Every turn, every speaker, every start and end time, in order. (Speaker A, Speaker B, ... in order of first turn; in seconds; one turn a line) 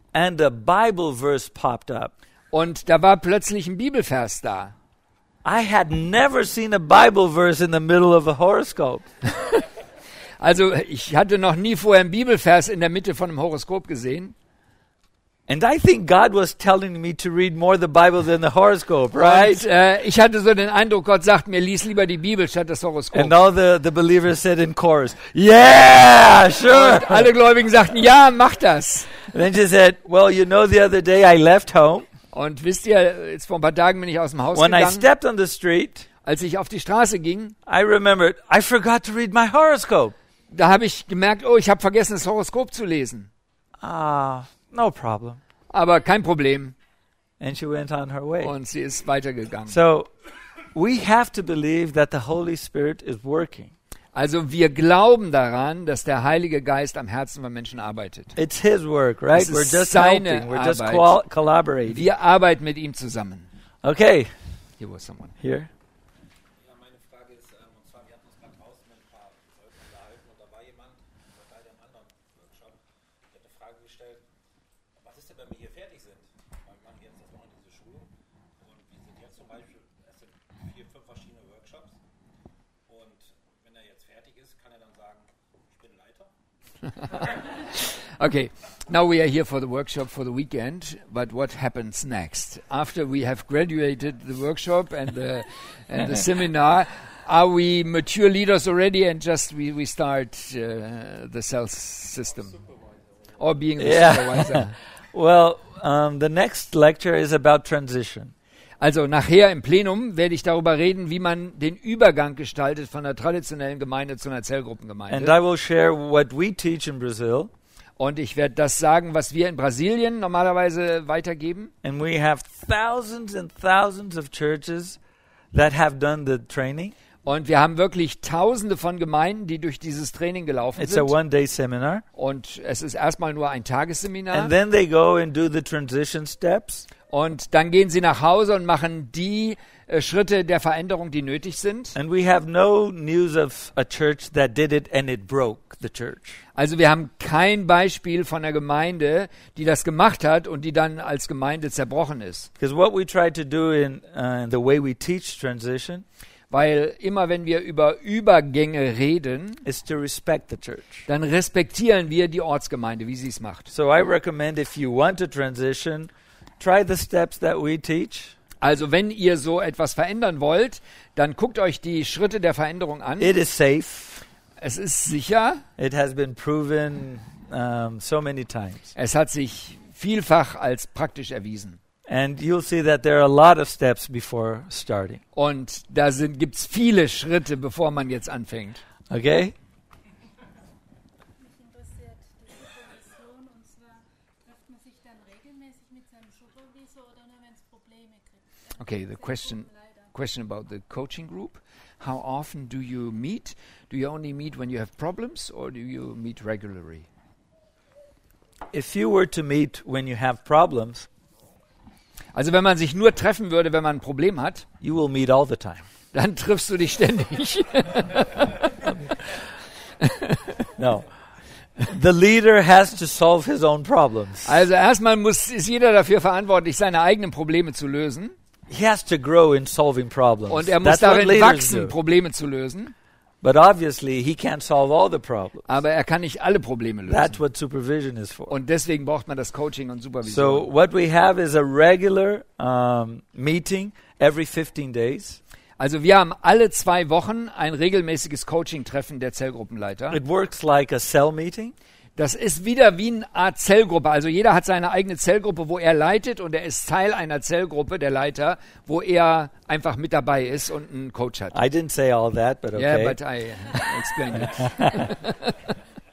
Speaker A: 0.1-2.1
Speaker B: 2.5-4.7
Speaker A: 5.4-9.1
Speaker B: 10.4-14.3
Speaker A: 15.5-19.6
Speaker B: 19.1-23.3
Speaker A: 23.1-27.3
Speaker B: 26.7-29.1
Speaker A: 29.2-32.1
Speaker B: 32.3-35.1
Speaker A: 34.5-36.0
Speaker B: 36.2-37.5
Speaker A: 37.6-40.1
Speaker B: 40.5-43.3
Speaker A: 43.8-45.4
Speaker B: 45.7-46.7
Speaker A: 47.4-48.5
Speaker B: 48.4-49.8
Speaker A: 49.7-50.1
Speaker A: 50.7-53.7
Speaker B: 54.1-58.4
Speaker A: 58.4-62.0
Speaker B: 59.3-61.2
Speaker B: 61.9-63.5
Speaker A: 63.8-64.3
Speaker B: 64.8-65.4
Speaker A: 65.4-65.7
Speaker C: 66.8-69.3
Speaker C: 69.9-70.6
Speaker C: 75.4-76.1
Speaker C: 77.0-77.7
Speaker C: 79.0-79.5
Speaker C: 81.2-81.8
Speaker C: 83.8-84.4
Speaker B: 87.0-102.6
Speaker B: 103.4-104.7
Speaker A: 103.8-108.3
Speaker B: 108.8-115.4
Speaker A: 115.1-117.5
Speaker B: 118.0-121.7
Speaker A: 121.8-125.0
Speaker A: 125.5-127.0
Speaker B: 127.2-131.1
Speaker A: 130.8-132.0
Speaker B: 132.2-134.5
Speaker A: 134.3-136.9
Speaker B: 137.1-141.9
Speaker A: 141.9-146.4
Speaker B: 146.6-152.5
Speaker A: 152.6-156.1
Speaker B: 156.5-159.6
Speaker A: 159.6-161.1
Speaker B: 161.1-163.7
Speaker A: 163.7-168.4
Speaker B: 168.6-173.3
Speaker A: 173.2-174.2
Speaker B: 174.6-175.6
Speaker A: 175.8-178.9
Speaker B: 178.9-181.8
Speaker A: 182.1-185.2
Speaker B: 185.3-188.8
Speaker A: 189.1-189.6
Speaker D: 191.4-200.1
Speaker B: 198.8-207.1
Speaker A: 208.7-211.1
Speaker B: 212.3-214.7
Speaker A: 214.8-215.9
Speaker B: 216.1-219.1
Speaker B: 220.0-220.7
Speaker A: 220.8-221.1
Speaker A: 221.8-224.6
Speaker B: 224.4-228.3
Speaker A: 228.7-231.9
Speaker B: 230.5-232.9
Speaker A: 233.4-235.7
Speaker B: 235.7-237.4
Speaker A: 237.1-238.5
Speaker B: 238.5-240.7
Speaker A: 240.3-245.4
Speaker B: 245.8-250.2
Speaker A: 250.1-251.7
Speaker B: 252.2-261.6
Speaker A: 261.5-263.2
Speaker B: 262.7-265.6
Speaker A: 264.6-265.1